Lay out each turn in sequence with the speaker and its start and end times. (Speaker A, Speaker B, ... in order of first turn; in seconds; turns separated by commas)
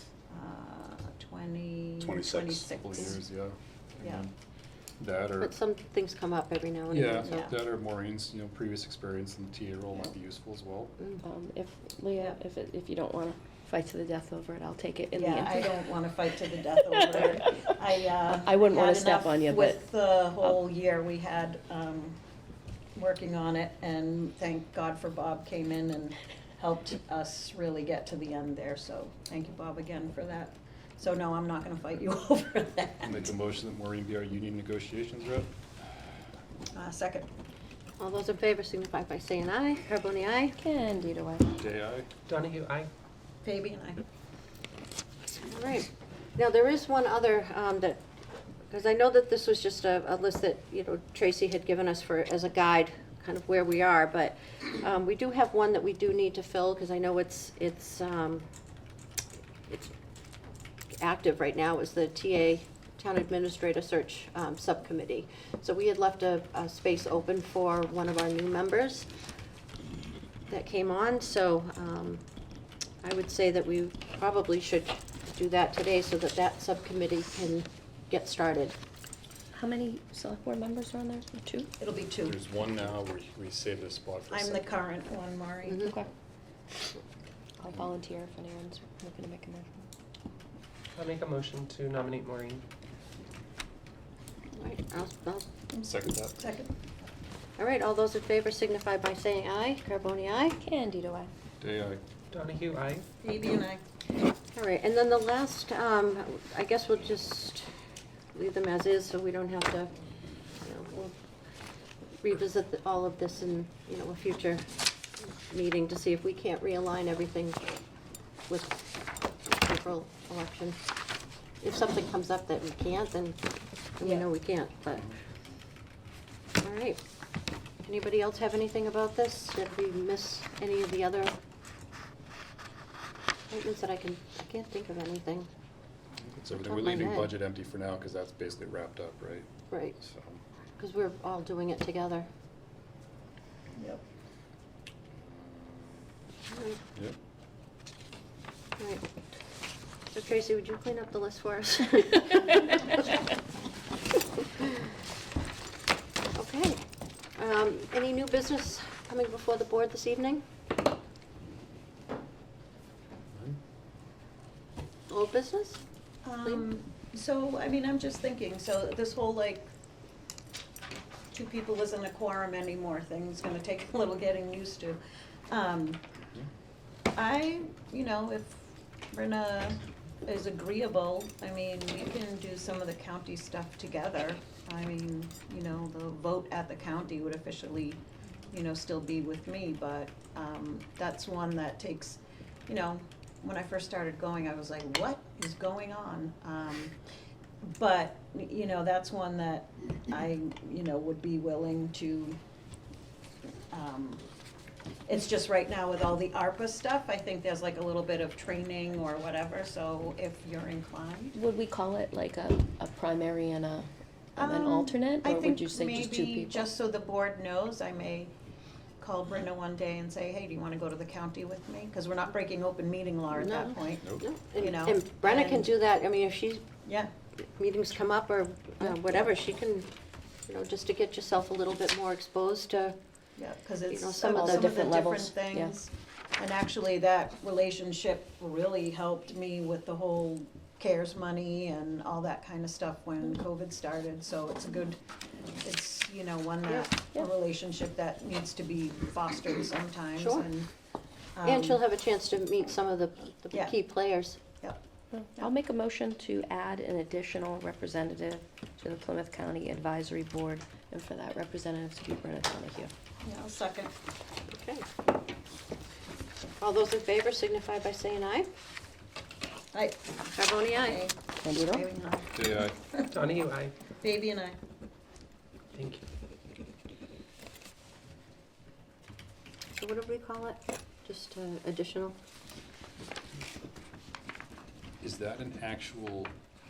Speaker A: 0.3-3.2, Speaker B: 2.0-4.3, Speaker B: 5.0-5.5, Speaker C: 5.4-7.5, Speaker B: 6.9-11.0, Speaker A: 7.2-7.5, Speaker D: 11.2-15.9, Speaker A: 12.1-12.4, Speaker A: 15.2-22.2, Speaker D: 16.9-17.7, Speaker D: 18.4-19.9, Speaker A: 22.9-33.3, Speaker B: 33.0-35.5, Speaker A: 36.7-37.3, Speaker C: 38.0-40.5, Speaker D: 40.6-41.6, Speaker B: 41.5-42.1, Speaker E: 42.3-42.9, Speaker A: 43.4-44.0, Speaker C: 45.4-48.0, Speaker C: 48.7-58.5, Speaker C: 61.0-69.1, Speaker C: 70.5-72.2, Speaker C: 73.0-78.7, Speaker D: 79.5-81.7, Speaker A: 81.8-82.3, Speaker B: 82.2-84.7, Speaker A: 84.3-85.9, Speaker D: 85.7-86.1, Speaker D: 87.6-89.8, Speaker E: 91.0-92.6, Speaker C: 94.5-95.5, Speaker A: 95.7-96.8, Speaker B: 95.8-96.4, Speaker C: 97.6-100.6, Speaker D: 100.5-101.3, Speaker B: 101.6-102.0, Speaker E: 102.3-103.0, Speaker A: 103.2-103.8, Speaker C: 104.5-107.7, Speaker C: 108.3-109.9, Speaker C: 110.6-111.1, Speaker C: 112.2-117.7, Speaker C: 118.5-120.8, Speaker C: 121.6-123.4, Speaker C: 123.9-125.1, Speaker C: 126.6-127.0, Speaker C: 127.8-131.3, Speaker C: 133.5-135.5, Speaker B: 136.2-140.4, Speaker C: 136.6-137.3, Speaker C: 139.7-140.0, Speaker C: 140.8-142.3, Speaker A: 143.8-144.0, Speaker B: 145.2-146.1, Speaker C: 146.5-146.8, Speaker C: 150.1-153.0, Speaker C: 156.3-156.8, Speaker C: 157.3-160.4, Speaker C: 165.1-165.8, Speaker A: 166.2-169.7, Speaker A: 171.3-176.0, Speaker A: 177.2-188.0, Speaker A: 188.5-196.9, Speaker A: 197.6-202.4, Speaker A: 203.7-204.2, Speaker A: 205.1-211.3, Speaker D: 211.3-216.7, Speaker A: 214.3-218.3, Speaker A: 219.0-225.7, Speaker C: 223.3-226.6, Speaker A: 226.8-227.1, Speaker C: 227.4-229.9, Speaker C: 230.5-232.9, Speaker A: 233.4-245.0, Speaker C: 233.9-234.8, Speaker D: 234.2-235.7, Speaker A: 245.6-250.7, Speaker C: 250.2-250.5, Speaker A: 251.3-251.8, Speaker C: 251.4-254.4, Speaker D: 255.1-262.9, Speaker A: 263.2-263.9, Speaker C: 264.5-264.9, Speaker C: 266.6-268.5, Speaker A: 269.7-270.1, Speaker C: 270.4-271.1, Speaker A: 270.7-273.1, Speaker D: 271.4-271.9, Speaker B: 272.3-272.8, Speaker E: 273.1-273.7, Speaker A: 274.0-274.6, Speaker E: 275.7-276.0, Speaker C: 279.8-282.2, Speaker B: 285.0-286.3